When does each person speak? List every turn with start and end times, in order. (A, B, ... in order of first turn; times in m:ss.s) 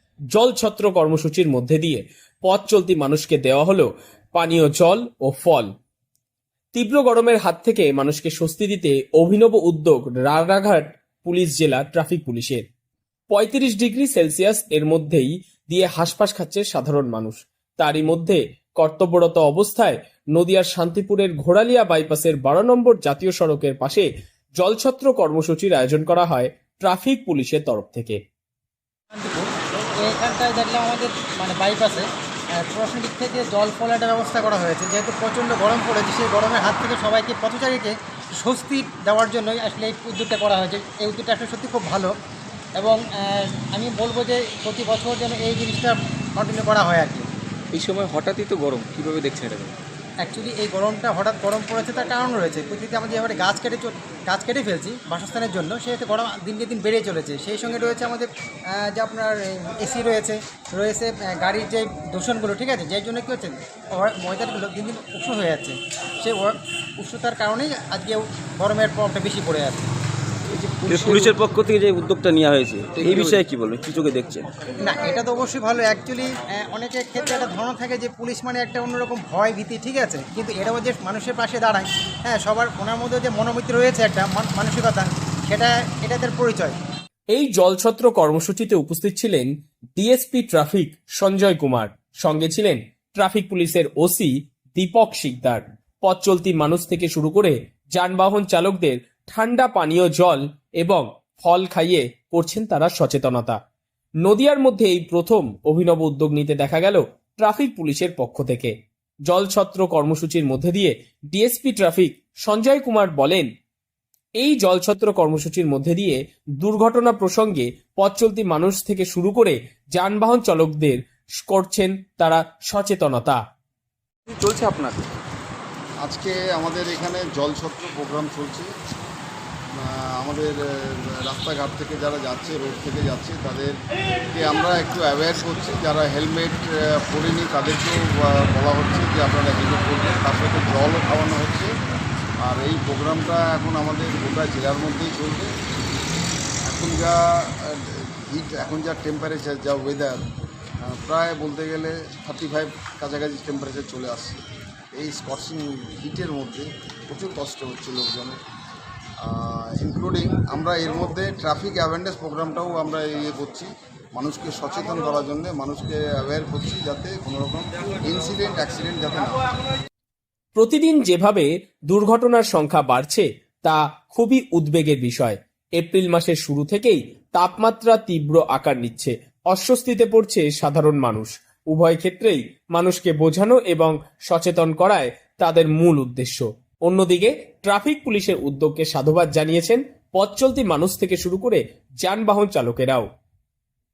0:00.3-0:05.7 A
0:06.7-0:12.6 A
0:13.3-0:24.1 A
0:24.6-0:28.2 A
0:29.1-0:32.0 B
0:32.6-0:42.1 B
0:42.8-0:47.2 B
0:47.7-0:49.7 C
0:50.2-1:09.9 B
1:10.6-1:14.4 D
1:10.8-1:11.4 C
1:13.0-1:13.4 C
1:14.8-1:26.8 B
1:27.3-1:43.6 A
1:44.2-1:48.7 A
1:49.3-1:53.5 A
1:54.4-2:03.4 A
2:04.3-2:05.0 A
2:06.0-2:08.7 E
2:09.7-2:13.8 E
2:14.3-2:21.7 E
2:22.4-2:25.5 E
2:26.7-2:30.2 E
2:30.8-2:34.4 E
2:34.9-2:38.4 E
2:39.2-2:49.4 E
2:50.6-3:13.1 A